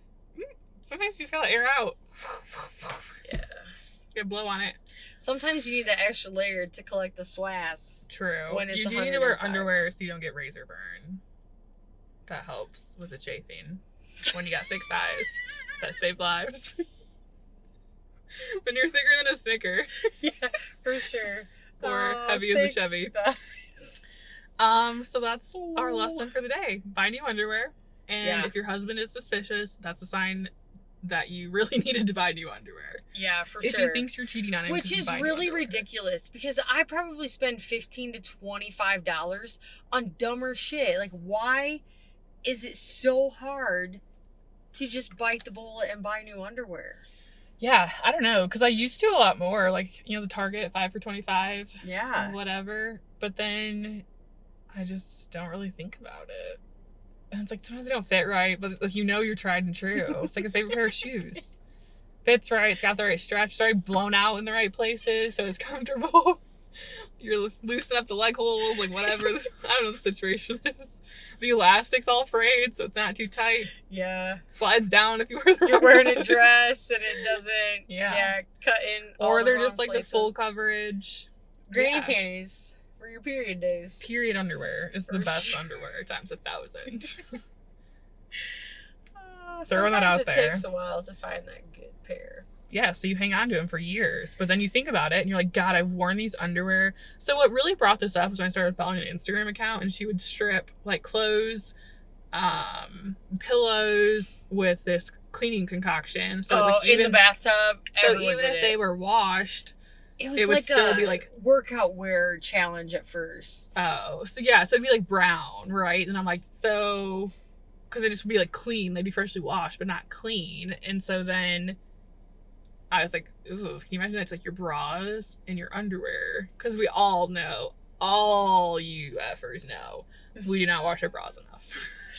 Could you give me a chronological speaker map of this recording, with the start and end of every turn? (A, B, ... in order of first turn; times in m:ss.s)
0:00.4-0:03.1 A
0:03.2-0:03.7 B
0:04.1-0:04.8 A
0:05.2-0:09.8 B
0:08.1-0:11.2 A
0:12.2-0:16.8 A
0:18.6-0:19.9 A
0:20.2-0:24.0 B
0:21.8-0:23.1 A
0:24.6-0:30.5 A
0:25.4-0:26.3 B
0:28.2-0:28.5 B
0:31.0-0:33.0 A
0:33.1-0:34.1 B
0:33.6-0:35.8 A
0:34.6-0:41.8 B
0:42.4-0:44.0 B
0:44.7-0:47.0 B
0:47.6-0:54.0 A
0:51.8-0:52.4 B
0:54.7-0:56.6 A
0:57.3-1:01.6 A
1:02.2-1:06.4 A
1:07.2-1:13.7 A
1:13.9-1:14.4 B
1:14.5-1:16.5 A
1:15.6-1:20.4 B
1:17.9-1:18.3 A
1:19.2-1:22.2 A
1:21.7-1:24.1 B
1:24.0-1:27.4 A
1:25.1-1:25.6 B
1:29.1-1:32.4 B
1:29.7-1:30.6 A
1:32.7-1:41.7 A
1:42.3-1:47.2 A
1:46.5-1:48.8 B
1:48.0-1:49.7 A
1:50.2-1:53.8 B
1:50.4-1:51.3 A
1:53.8-1:57.3 A
1:57.9-2:01.8 A
2:02.9-2:11.9 A